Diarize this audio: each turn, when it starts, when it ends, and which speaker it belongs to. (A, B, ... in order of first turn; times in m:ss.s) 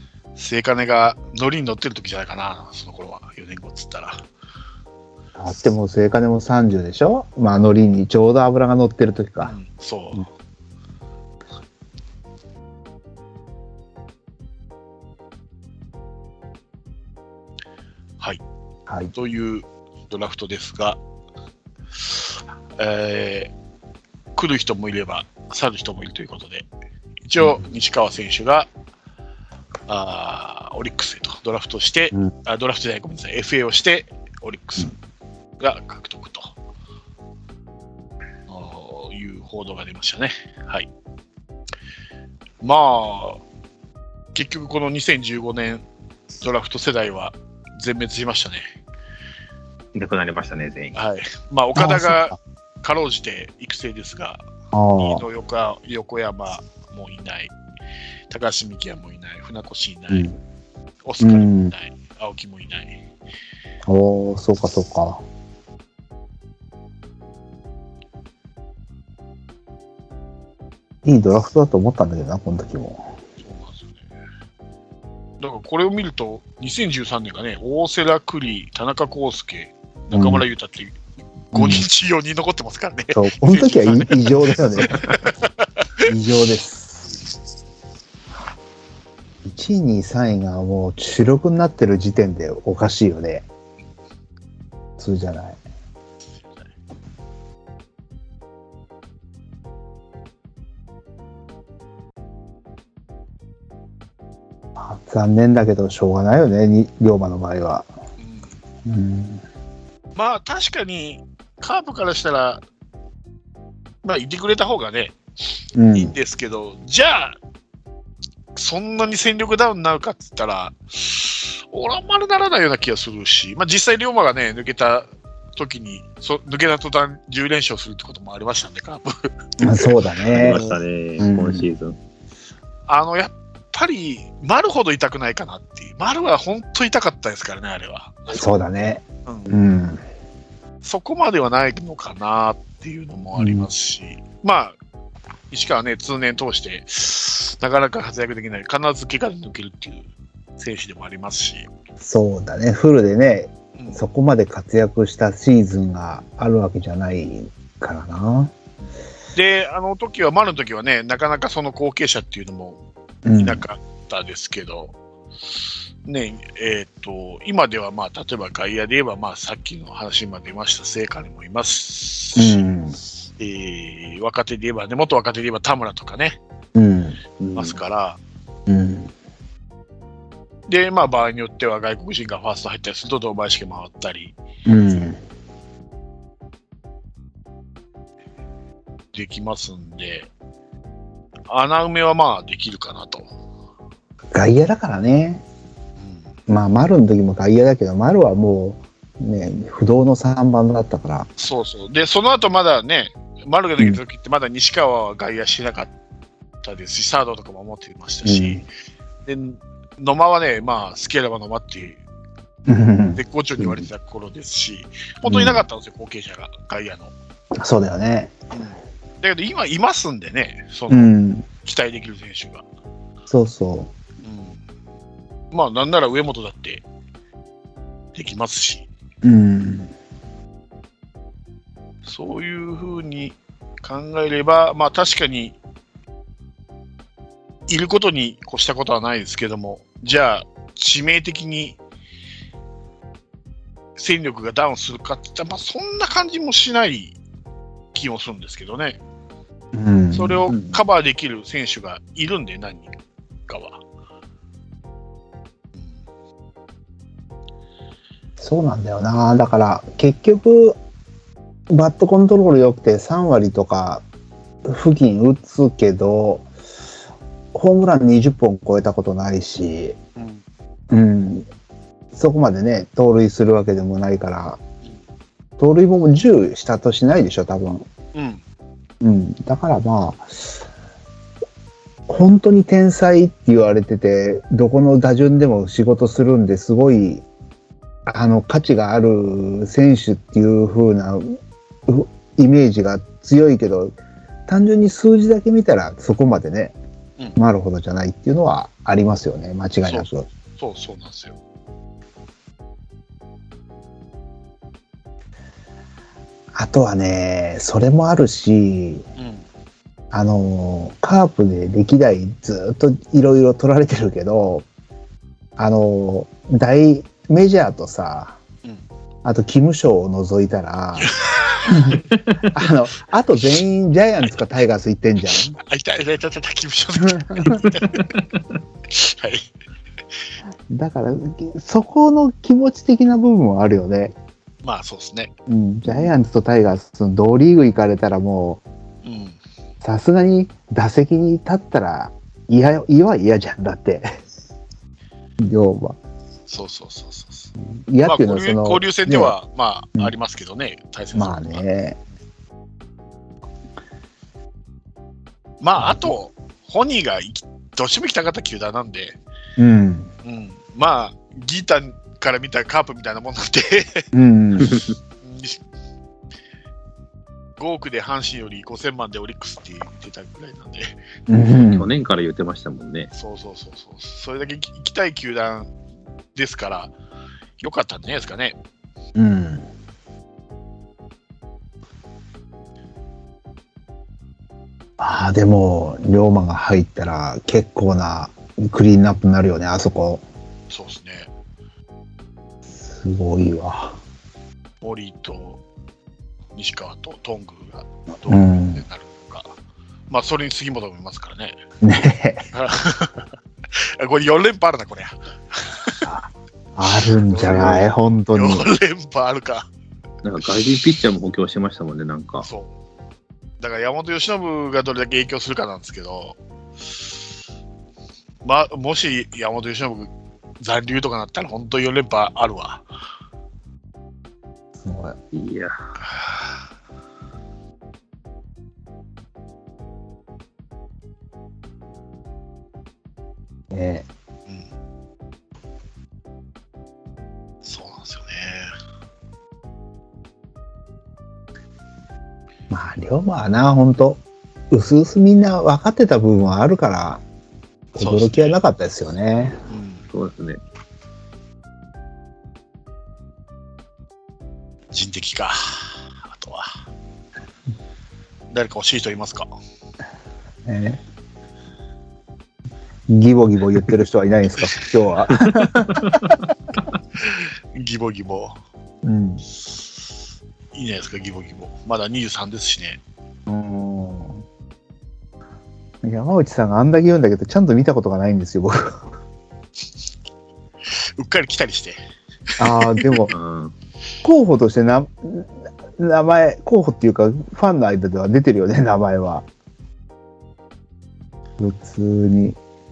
0:00.4-0:04.2 A
0:05.4-0:09.6 B
0:09.4-0:10.3 A
0:19.1-0:21.0 A
0:22.1-0:23.5 A
0:24.3-0:26.6 A
0:27.2-0:28.7 A
0:29.9-0:34.9 A
0:35.6-0:36.5 A
0:38.5-0:40.9 A
0:42.6-0:43.4 A
0:44.3-0:45.8 A
0:46.4-0:48.7 A
0:49.9-0:51.0 C
0:50.9-0:54.4 A
0:51.8-0:52.4 B
0:54.7-0:55.2 B
0:55.0-0:57.5 A
0:58.3-1:00.3 A
1:00.1-1:00.4 B
1:01.0-1:03.0 A
1:01.2-1:01.7 B
1:03.8-1:05.2 B
1:11.0-1:13.1 B
1:13.4-1:14.1 A
1:15.4-1:21.0 A
1:20.1-1:20.4 B
1:21.5-1:26.1 A
1:21.5-1:21.9 B
1:23.1-1:25.0 B
1:26.0-1:27.1 B
1:29.4-1:33.4 B
1:35.0-1:35.6 B
1:36.4-1:36.7 A
1:44.8-1:47.9 B
1:48.2-1:48.6 A
1:48.8-1:49.4 B
1:50.2-1:52.6 A
1:54.0-1:55.2 A
1:55.7-1:56.1 B
1:55.9-1:57.4 A
1:58.6-2:10.7 A
2:09.6-2:11.7 B
2:10.3-2:12.0 C
2:12.9-2:18.5 A
2:18.3-2:20.0 B
2:19.2-2:19.6 A
2:20.8-2:24.8 A
2:23.4-2:23.7 B
2:25.5-2:31.7 A
2:32.0-2:38.5 B
2:33.7-2:34.0 A
2:39.3-2:42.8 A
2:43.2-2:43.6 B
2:43.3-2:44.9 A
2:46.0-2:52.6 A
2:52.3-2:53.0 B
2:53.4-2:56.4 A
2:56.7-2:57.2 B
2:57.4-2:57.8 C
2:57.6-2:58.2 A
2:58.7-2:59.1 B
3:00.7-3:04.3 A
3:04.6-3:05.2 B
3:09.1-3:10.3 A
3:11.5-3:13.3 A
3:14.3-3:15.4 B
3:16.0-3:16.3 A
3:16.5-3:21.3 B
3:21.4-3:25.9 A
3:26.6-3:28.7 A
3:28.2-3:28.6 B
3:29.2-3:32.0 A
3:32.6-3:33.9 B
3:33.2-3:37.1 A
3:35.2-3:35.6 B
3:37.5-3:38.4 B
3:38.5-3:42.6 A
3:40.9-3:41.4 B
3:43.3-3:43.9 B
3:44.2-3:44.6 A
3:45.5-3:46.8 A
3:48.1-3:48.9 A
3:49.2-3:49.9 B
3:52.0-3:55.5 A
3:57.7-4:01.8 A
4:04.0-4:07.2 A
4:07.9-4:09.0 A
4:09.7-4:10.5 B
4:10.1-4:13.0 A
4:10.5-4:10.8 C
4:13.5-4:13.8 A
4:18.4-4:20.8 B
4:21.7-4:24.0 B
4:24.6-4:26.5 B
4:27.5-4:30.0 B
4:30.2-4:30.4 A
4:30.9-4:31.5 B
4:32.1-4:34.6 B
4:35.6-4:37.9 B
4:38.1-4:38.4 A
4:39.0-4:40.6 B
4:42.1-4:47.2 B
4:48.0-4:56.7 B
4:57.4-5:00.3 B
4:59.8-5:01.4 A
5:06.5-5:09.0 B
5:09.2-5:09.4 A
5:10.1-5:14.6 B
5:15.6-5:18.4 B
5:19.2-5:21.1 B
5:21.0-5:22.0 A
5:21.7-5:25.6 B
5:25.3-5:28.1 A
5:27.0-5:27.6 B
5:28.9-5:29.5 A
5:30.7-5:34.1 B
5:34.6-5:35.3 A
5:35.5-5:38.6 B
5:39.0-5:39.4 A
5:39.8-5:44.2 B
5:45.4-5:46.0 B
5:46.5-5:51.6 A
5:47.6-5:49.3 B
5:51.1-5:52.0 B
5:55.6-5:59.2 A
5:55.8-5:56.1 B
5:59.6-6:00.1 B
6:00.2-6:04.1 A
6:04.1-6:04.7 B
6:04.6-6:05.6 A
6:07.6-6:11.0 A
6:11.3-6:11.8 B
6:11.5-6:13.1 C
6:13.1-6:15.7 A
6:16.3-6:16.9 A
6:17.6-6:18.6 A
6:19.2-6:19.6 B
6:25.0-6:30.2 B
6:30.7-6:31.3 A
6:32.7-6:34.0 B
6:34.8-6:35.6 A
6:36.5-6:39.5 A
6:38.3-6:38.8 B
6:40.1-6:41.6 A
6:41.8-6:42.4 B
6:42.5-6:46.1 A
6:46.0-6:48.6 B
6:47.2-6:49.6 A
6:50.2-6:52.5 C
6:52.4-6:52.7 A
6:53.6-6:56.4 A
6:58.4-7:02.8 A
7:04.8-7:05.2 B
7:05.3-7:05.7 C
7:13.7-7:14.1 B
7:17.6-7:18.7 A
7:22.7-7:27.2 B
7:27.9-7:29.6 B
7:28.0-7:28.6 A
7:29.7-7:30.0 A
7:30.1-7:30.6 C
7:34.9-7:36.7 A
7:38.5-7:39.5 A
7:40.6-7:41.0 B
7:43.1-7:46.3 B
7:44.6-7:44.8 A
7:47.3-7:48.6 A
7:49.0-7:49.4 B
7:50.7-7:53.0 A
7:53.4-7:54.4 B
7:56.0-7:59.1 B
8:00.9-8:02.0 A
8:02.6-8:03.3 A
8:02.6-8:03.3 B
8:03.3-8:03.7 C
8:04.2-8:09.4 B
8:11.6-8:12.6 B